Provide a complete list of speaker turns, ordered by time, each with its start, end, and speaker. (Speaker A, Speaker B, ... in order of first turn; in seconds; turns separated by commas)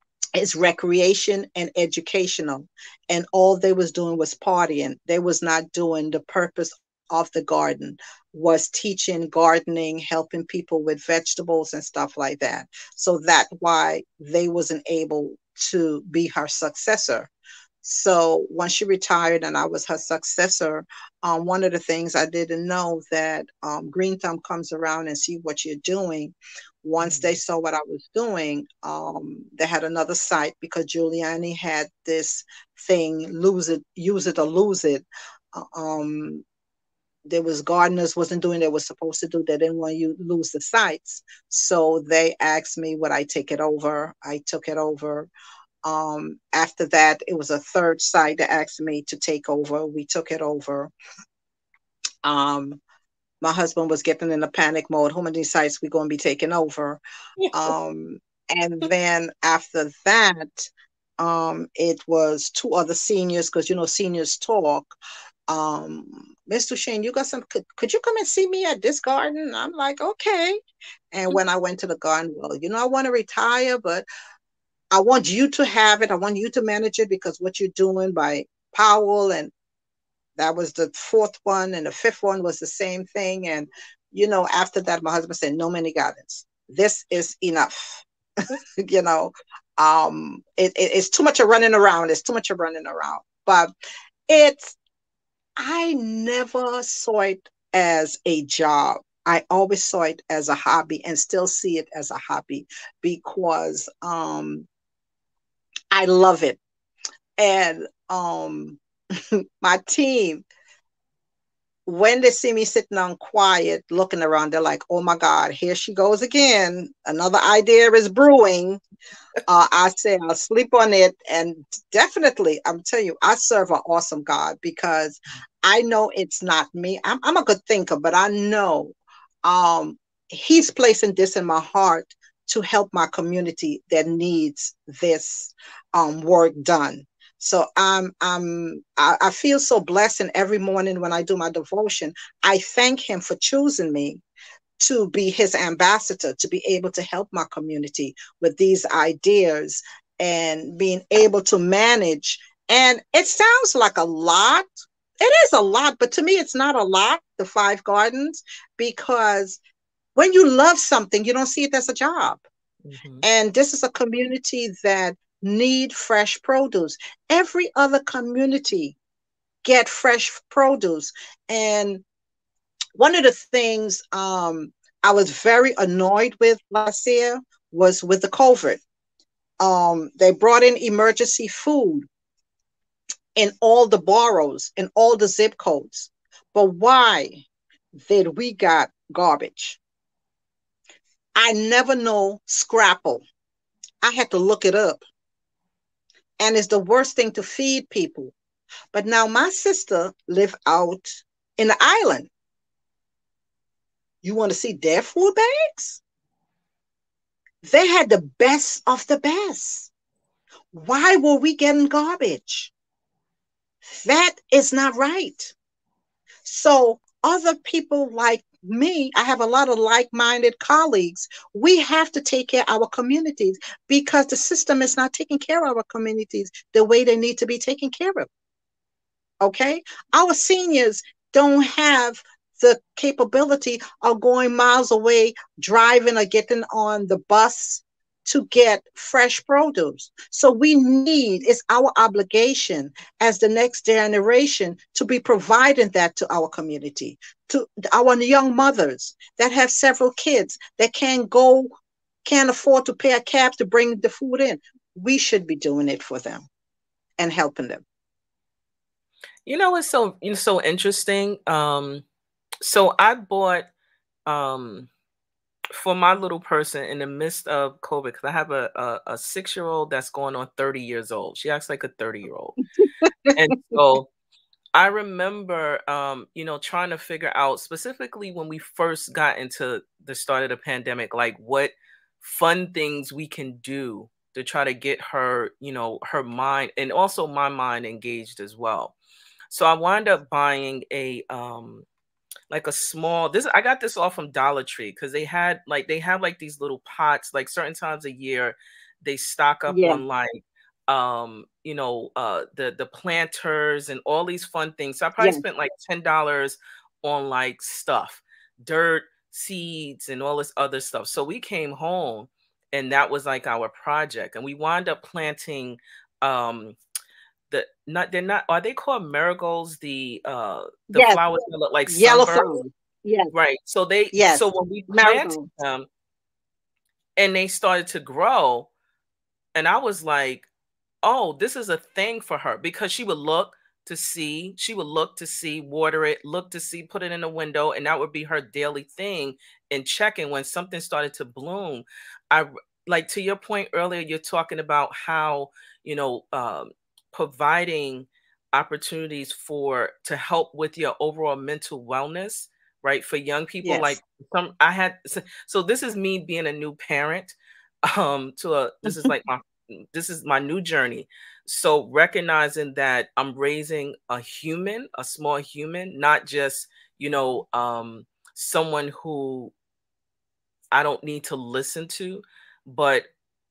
Speaker A: 0.4-17.3, Speaker A: 17.8-36.4, Speaker B: 27.0-27.4, Speaker A: 37.2-45.3, Speaker A: 45.9-50.9, Speaker A: 52.2-52.8, Speaker A: 53.4-57.0, Speaker B: 57.4-57.7, Speaker A: 57.5-64.9, Speaker A: 65.5-70.6, Speaker A: 71.1-74.1, Speaker A: 74.9-79.5, Speaker A: 80.4-93.7, Speaker A: 94.3-94.8, Speaker A: 95.6-104.7, Speaker A: 105.9-106.6, Speaker A: 107.4-110.5, Speaker A: 111.9-118.8, Speaker A: 119.5-144.2, Speaker A: 144.8-154.7, Speaker A: 155.2-159.6, Speaker A: 160.2-162.4, Speaker B: 162.8-163.2, Speaker A: 163.2-169.0, Speaker A: 169.6-172.0, Speaker A: 173.0-178.8, Speaker A: 179.6-182.1, Speaker A: 183.4-187.4, Speaker A: 188.0-189.8, Speaker A: 191.4-193.2, Speaker A: 194.0-195.0, Speaker A: 196.4-198.3, Speaker A: 198.9-202.3, Speaker A: 204.2-206.0, Speaker A: 207.6-209.9, Speaker A: 210.7-212.7, Speaker A: 214.0-215.5, Speaker A: 216.4-228.3, Speaker A: 229.4-251.7, Speaker A: 252.2-256.5, Speaker A: 257.2-257.8, Speaker B: 259.5-262.1, Speaker B: 262.6-263.7, Speaker B: 264.3-264.9, Speaker B: 265.8-272.6, Speaker A: 273.0-273.3, Speaker B: 273.3-274.1, Speaker B: 274.8-289.0, Speaker B: 289.5-291.9, Speaker B: 292.5-316.8, Speaker A: 299.7-300.0, Speaker A: 305.2-305.4, Speaker B: 317.5-322.6, Speaker A: 320.9-323.3, Speaker B: 323.3-325.9, Speaker A: 324.1-325.5, Speaker B: 327.2-328.7, Speaker B: 329.6-330.5, Speaker B: 331.0-369.5, Speaker A: 353.6-354.0, Speaker B: 370.7-373.1